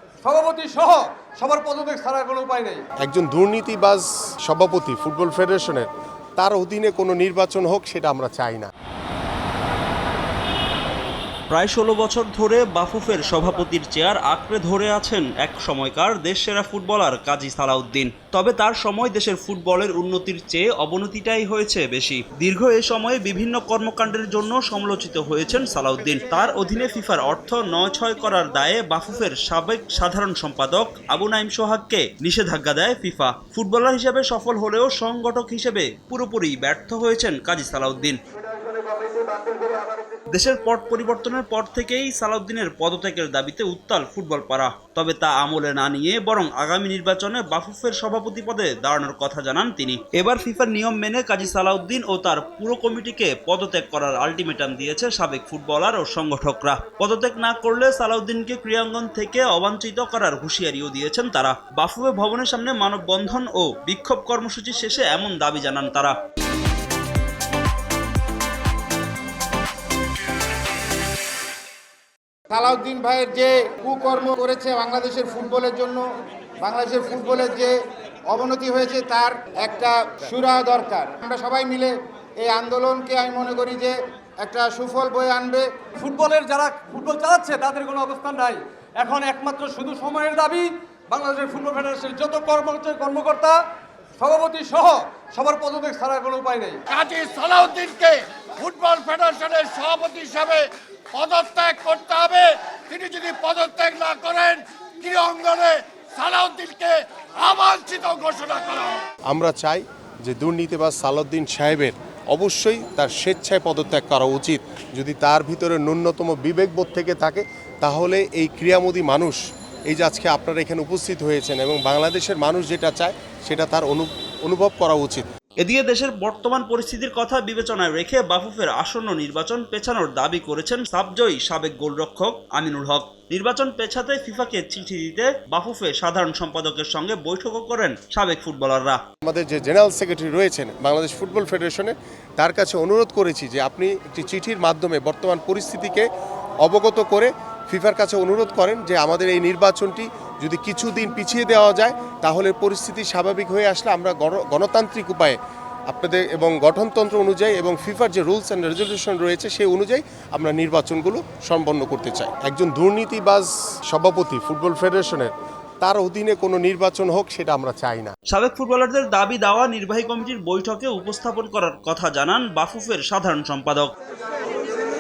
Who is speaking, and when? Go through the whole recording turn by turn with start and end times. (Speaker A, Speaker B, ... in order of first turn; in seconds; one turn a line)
Speaker A: 0.2-2.8
Speaker B: 3.0-8.7
Speaker C: 11.5-38.2
Speaker C: 40.3-66.1
Speaker D: 72.5-76.0
Speaker D: 76.6-77.7
Speaker D: 78.3-85.7
Speaker A: 86.0-93.6
Speaker A: 94.2-96.8
Speaker E: 96.9-109.0
Speaker B: 109.3-119.4
Speaker B: 119.9-125.3
Speaker C: 125.6-139.0
Speaker B: 139.2-146.1
Speaker B: 146.6-155.4
Speaker B: 155.9-165.3
Speaker B: 165.8-168.1
Speaker C: 168.3-173.9